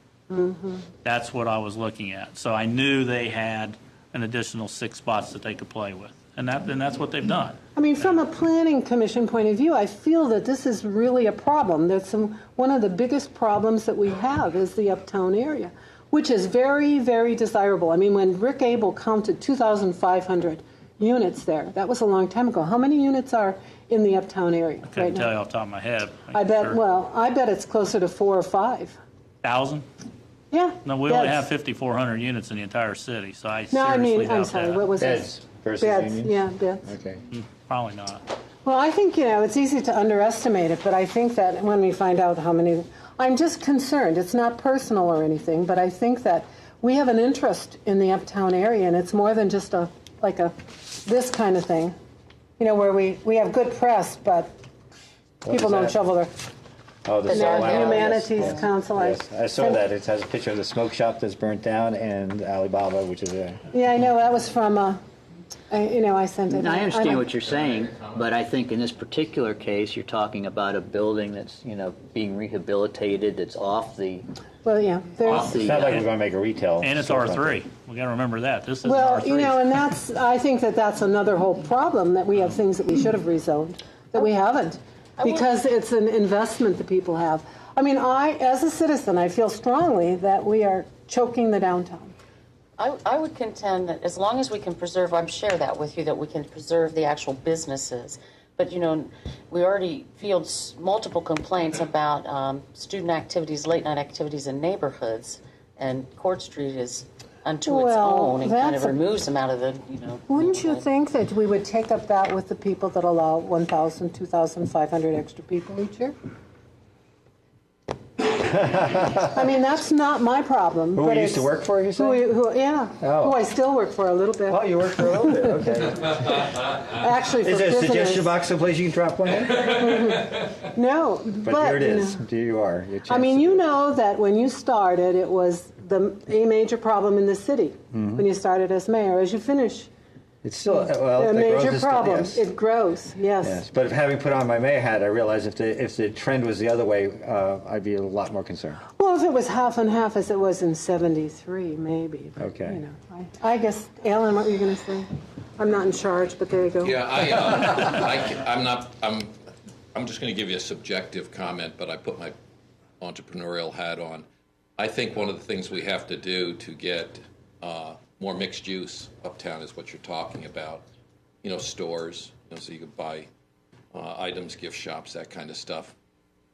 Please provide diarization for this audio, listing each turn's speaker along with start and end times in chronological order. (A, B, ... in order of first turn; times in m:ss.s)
0:00.3-0:00.8 A
0:01.0-0:08.2 B
0:07.8-0:25.3 A
0:24.9-0:26.8 B
0:26.3-0:29.0 A
0:29.4-0:29.8 B
0:30.5-0:31.5 A
0:30.8-0:34.9 B
0:33.7-0:36.9 A
0:35.0-0:36.3 C
0:36.8-0:37.2 C
0:37.3-0:38.2 B
0:38.6-0:51.9 A
0:52.6-0:54.5 A
0:55.4-0:56.3 A
0:55.4-0:56.0 C
0:57.1-1:03.6 C
0:57.3-0:58.6 D
0:57.3-0:59.8 A
1:03.7-1:05.0 A
1:05.7-1:07.3 A
1:06.5-1:14.3 E
1:07.4-1:08.2 F
1:14.6-1:15.9 A
1:15.2-1:15.9 E
1:15.4-1:17.5 C
1:16.8-1:19.6 B
1:18.8-1:32.1 A
1:25.2-1:25.5 D
1:32.8-1:50.8 D
1:47.6-1:49.0 A
1:50.3-1:56.1 A
1:58.3-1:59.2 C
1:59.3-2:05.8 A
2:01.0-2:02.2 C
2:03.0-2:03.4 C
2:04.5-2:06.2 C
2:06.9-2:08.3 A
2:07.4-2:09.7 C
2:09.6-2:12.2 A
2:11.4-2:13.6 C
2:13.1-2:19.9 A
2:17.9-2:18.2 C
2:20.4-2:22.4 C
2:21.1-2:23.6 A
2:23.4-2:28.8 C
2:29.0-2:37.0 A
2:32.4-2:32.8 C
2:36.8-2:39.3 F
2:40.0-2:42.3 F
2:43.0-2:44.3 F
2:44.8-2:50.8 F
2:51.4-2:53.3 F
2:53.9-2:55.9 F